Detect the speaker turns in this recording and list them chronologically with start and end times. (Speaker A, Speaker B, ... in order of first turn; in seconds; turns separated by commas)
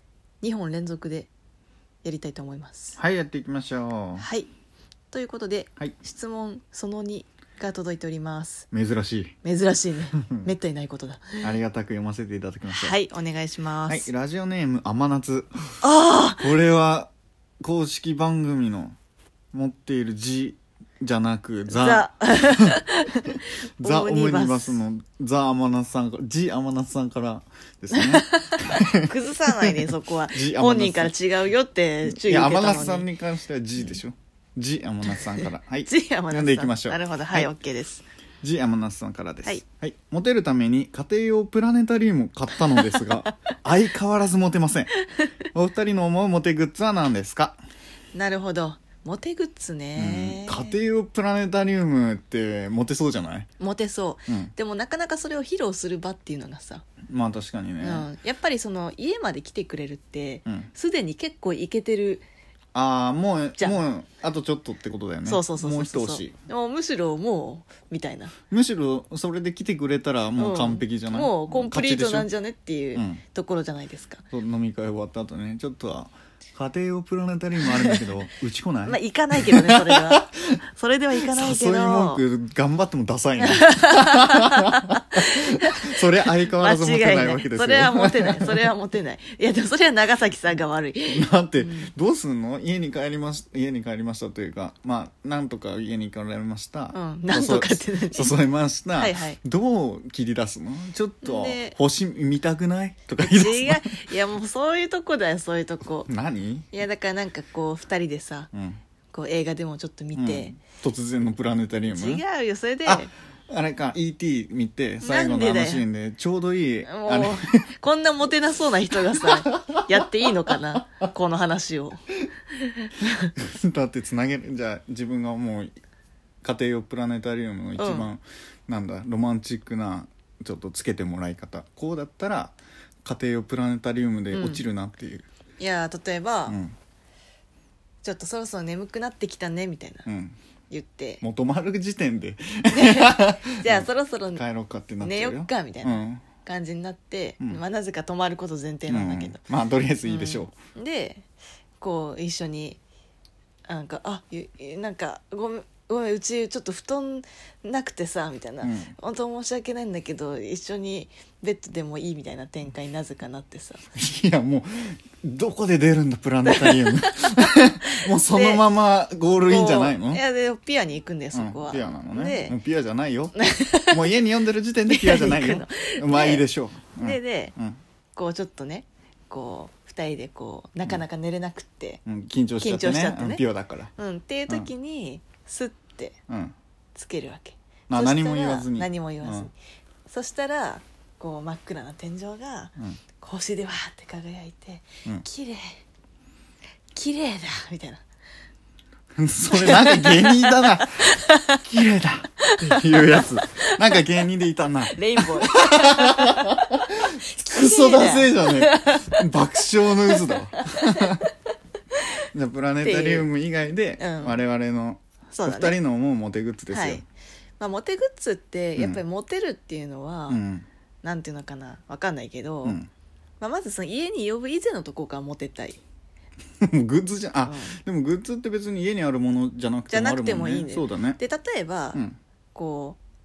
Speaker A: 0.4-1.3, Speaker A: 2.0-3.0, Speaker B: 3.0-4.3, Speaker A: 4.2-4.5, Speaker A: 5.1-8.7, Speaker B: 8.7-9.3, Speaker A: 9.4-11.5, Speaker B: 10.2-10.5, Speaker B: 11.4-13.0, Speaker A: 12.7-14.1, Speaker B: 13.9-15.8, Speaker A: 15.8-16.5, Speaker B: 16.4-18.9, Speaker B: 19.5-22.8, Speaker A: 21.7-24.8, Speaker B: 23.3-31.1, Speaker A: 27.9-33.1, Speaker B: 32.0-37.5, Speaker A: 35.1-38.0, Speaker B: 38.4-44.9, Speaker A: 42.6-43.1, Speaker B: 45.5-47.6, Speaker A: 48.1-50.7, Speaker B: 50.0-53.5, Speaker A: 53.6-56.8, Speaker B: 54.3-54.5, Speaker B: 57.1-58.1, Speaker A: 57.8-62.2, Speaker B: 62.7-66.3, Speaker A: 63.6-63.8, Speaker A: 65.2-68.3, Speaker B: 68.5-72.3, Speaker A: 70.4-74.2, Speaker B: 72.9-73.2, Speaker B: 74.3-80.6, Speaker A: 77.6-78.0, Speaker A: 78.8-82.2, Speaker B: 81.2-88.7, Speaker A: 83.4-91.9, Speaker B: 91.1-104.0, Speaker A: 96.9-98.3, Speaker A: 99.0-99.4, Speaker A: 101.2-101.8, Speaker A: 103.2-106.1, Speaker B: 106.1-106.7, Speaker A: 106.7-108.5, Speaker B: 108.5-108.8, Speaker A: 109.1-110.5, Speaker B: 110.1-112.2, Speaker A: 111.9-113.1, Speaker B: 112.8-117.7, Speaker A: 115.0-115.8, Speaker A: 116.9-122.0, Speaker B: 119.1-120.5, Speaker A: 122.6-123.3, Speaker B: 123.3-125.7, Speaker B: 126.4-135.3, Speaker A: 127.8-128.1, Speaker A: 134.3-134.6, Speaker A: 135.6-136.6, Speaker B: 136.5-136.8, Speaker A: 138.0-140.1, Speaker B: 140.1-140.3, Speaker A: 140.7-141.2, Speaker B: 141.2-146.2, Speaker A: 142.7-144.4, Speaker A: 145.0-149.4, Speaker B: 148.9-150.5, Speaker A: 150.0-151.3, Speaker A: 151.8-152.8, Speaker A: 153.7-163.8, Speaker B: 158.6-158.9, Speaker B: 163.9-170.2, Speaker A: 166.4-168.6, Speaker A: 169.4-172.6, Speaker B: 171.3-177.8, Speaker A: 173.3-174.0, Speaker A: 174.9-176.4, Speaker A: 177.0-177.5, Speaker A: 178.1-182.0, Speaker B: 182.1-183.9, Speaker A: 182.6-183.4, Speaker A: 184.0-186.2, Speaker B: 186.3-186.5, Speaker A: 186.9-189.5, Speaker B: 187.9-189.5, Speaker A: 190.1-195.8, Speaker A: 196.9-198.0, Speaker B: 199.2-211.3, Speaker A: 199.5-201.6, Speaker A: 202.4-203.7, Speaker A: 204.9-209.3, Speaker A: 209.9-211.2, Speaker B: 212.3-217.0, Speaker A: 212.8-213.3, Speaker A: 214.0-214.4, Speaker A: 215.3-215.8, Speaker A: 216.7-217.0, Speaker A: 217.6-220.4, Speaker B: 218.8-219.0, Speaker B: 220.3-220.7, Speaker A: 221.0-222.8, Speaker B: 222.6-222.9, Speaker A: 223.4-225.8, Speaker B: 226.6-231.2, Speaker A: 227.4-227.8, Speaker A: 229.9-232.0, Speaker A: 232.5-233.0